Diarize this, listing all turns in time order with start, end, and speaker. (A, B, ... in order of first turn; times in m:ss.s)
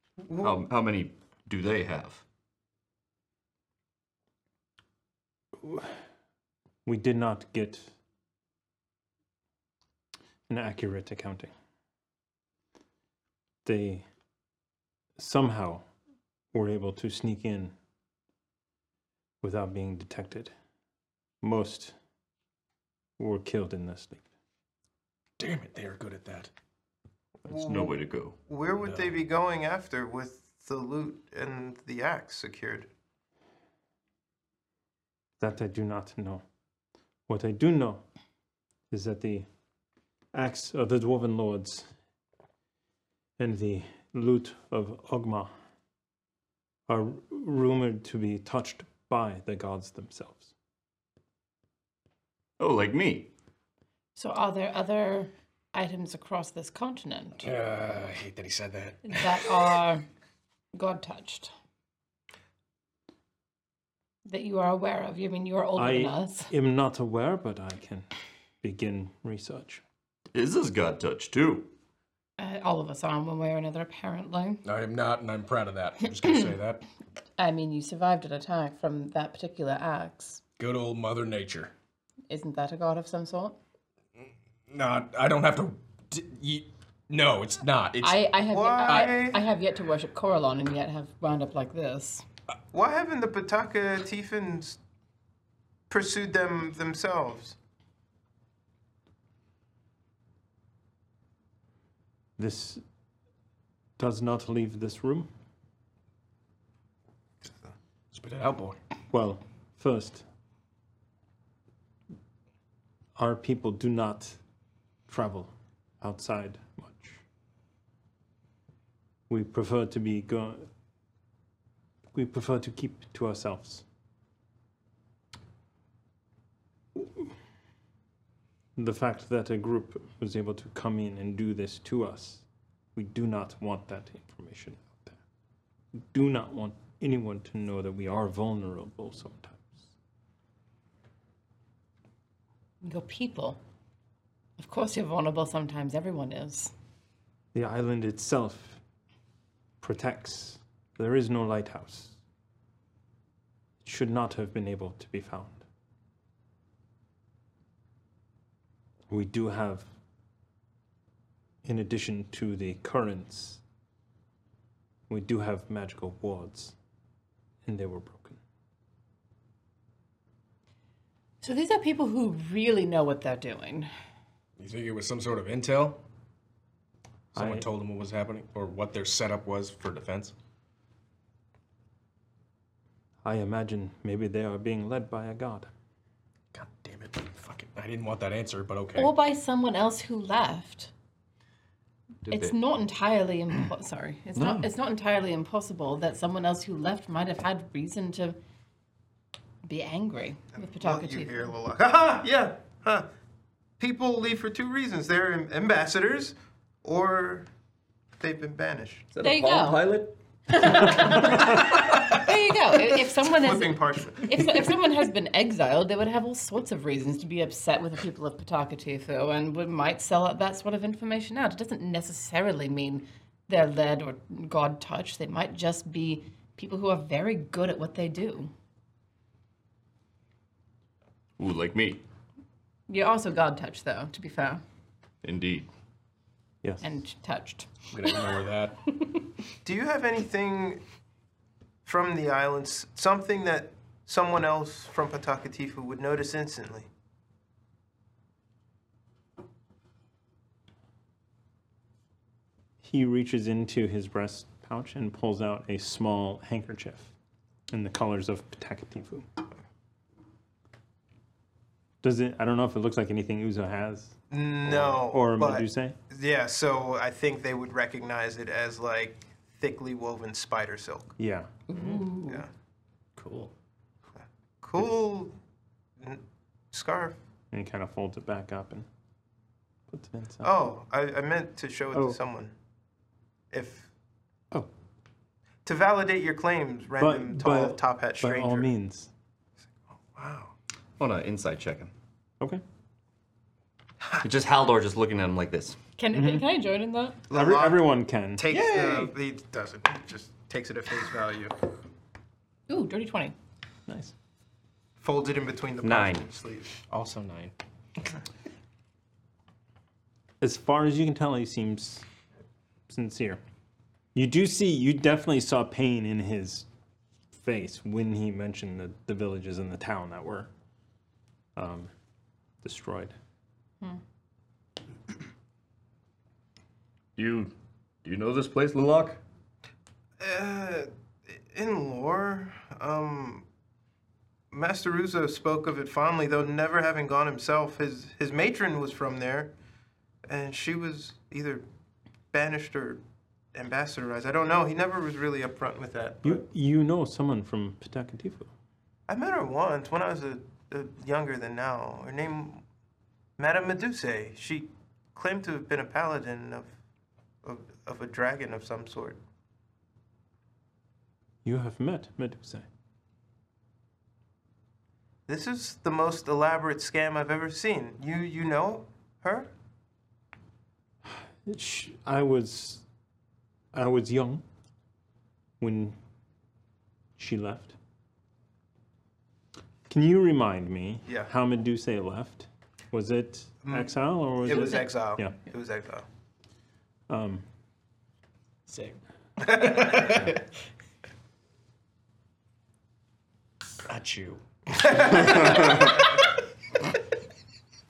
0:00.4-0:02.2 A
0:05.6-0:05.9 B
0:06.8-0:07.9 B
0:10.5-0:11.5 B
0:13.6-0:14.0 B
0:15.2-0:15.8 B
0:16.5-0:17.7 B
0:19.4-0:20.5 B
0:21.4-0:21.9 B
0:23.2-0:24.2 B
0:25.4-0:26.5 C
0:27.4-0:32.9 D
0:27.5-0:28.4 A
0:28.8-0:29.1 C
0:35.4-0:36.4 B
0:37.3-0:38.0 B
0:38.9-0:39.4 B
0:40.3-0:41.9 B
0:43.4-0:45.5 B
0:46.9-0:50.5 B
0:52.6-0:53.3 A
0:54.2-0:57.5 E
0:57.4-0:59.3 C
0:59.0-1:00.0 E
1:00.7-1:01.5 E
1:04.2-1:06.5 E
1:05.8-1:08.1 B
1:08.6-1:09.8 B
1:10.3-1:11.7 A
1:12.4-1:14.6 E
1:14.6-1:16.8 C
1:17.4-1:20.4 E
1:20.6-1:21.7 C
1:22.3-1:23.6 E
1:24.7-1:28.3 C
1:28.0-1:32.2 E
1:28.5-1:29.4 D
1:32.7-1:34.8 D
1:35.9-1:37.6 D
1:42.4-1:42.8 B
1:44.0-1:45.3 B
1:48.1-1:48.8 C
1:49.1-1:50.2 B
1:53.2-1:54.4 B
1:55.1-1:57.2 B
1:59.3-2:00.7 B
2:02.1-2:03.8 B
2:06.9-2:07.3 B
2:08.8-2:12.4 B
2:12.9-2:15.2 B
2:16.0-2:19.9 B
2:22.8-2:23.6 E
2:24.6-2:26.7 E
2:27.5-2:28.8 B
2:29.8-2:32.2 B
2:33.8-2:35.6 B
2:39.1-2:39.8 B
2:41.6-2:43.6 B
2:45.1-2:46.7 B
2:47.6-2:48.4 B
2:51.4-2:53.9 E
2:54.6-2:56.0 C
2:57.3-2:57.6 B
2:57.3-3:00.3 C
3:03.2-3:05.7 B
3:06.5-3:09.1 C
3:09.0-3:10.9 E
3:12.2-3:12.5 A
3:12.3-3:18.4 E
3:14.4-3:14.7 A
3:19.6-3:21.5 E
3:20.6-3:23.1 D
3:23.8-3:27.5 D
3:28.2-3:29.1 D
3:29.1-3:31.2 A
3:29.2-3:29.8 E
3:30.5-3:48.5 E
3:33.4-3:34.7 D
3:51.4-3:52.0 A
3:52.9-3:54.6 E
3:55.2-3:55.7 A
3:56.8-3:58.1 E
3:57.9-3:58.8 C
3:59.6-4:00.8 D
4:01.8-4:06.9 D
4:12.8-4:17.1 B
4:17.7-4:19.3 B
4:22.0-4:26.0 B
4:24.3-4:31.1 D
4:31.2-4:31.5 B
4:31.7-4:32.4 E
4:31.7-4:32.0 C
4:31.8-4:32.5 D
4:33.2-4:33.5 C
4:34.2-4:35.3 D
4:36.0-4:37.2 D
4:37.5-4:38.9 B
4:39.9-4:40.5 B
4:40.4-4:42.5 D
4:41.9-4:42.2 B
4:43.5-4:43.9 D
4:45.6-4:48.7 D
4:47.0-4:49.1 B
4:50.0-4:50.5 D
4:51.0-4:51.9 A
4:54.2-4:55.8 A
4:56.0-4:57.2 E
4:56.1-4:56.4 B
4:57.3-4:57.8 D
4:57.3-4:58.5 B
4:58.4-5:01.5 D
4:58.5-4:59.1 C
5:02.7-5:03.3 E
5:03.9-5:04.1 B
5:05.0-5:06.8 D
5:05.8-5:06.2 A
5:06.9-5:07.5 C
5:10.4-5:12.0 B
5:12.9-5:13.4 B
5:14.1-5:16.7 B
5:17.3-5:20.5 B
5:21.6-5:21.9 B
5:22.6-5:23.1 B
5:27.2-5:29.2 A
5:30.2-5:33.4 D
5:34.5-5:39.5 D
5:40.3-5:41.6 D
5:42.3-5:43.0 D
5:43.5-5:46.4 D
5:46.2-5:48.5 B
5:49.1-5:52.6 D
5:53.4-5:56.7 D
5:57.4-5:59.2 D
6:01.4-6:02.6 B
6:05.3-6:09.5 D
6:11.0-6:12.8 B
6:13.7-6:14.4 B
6:15.6-6:16.0 B
6:17.2-6:17.8 B
6:19.9-6:25.3 B
6:23.6-6:26.0 D
6:27.1-6:27.4 B
6:28.7-6:30.4 C
6:33.8-6:35.9 C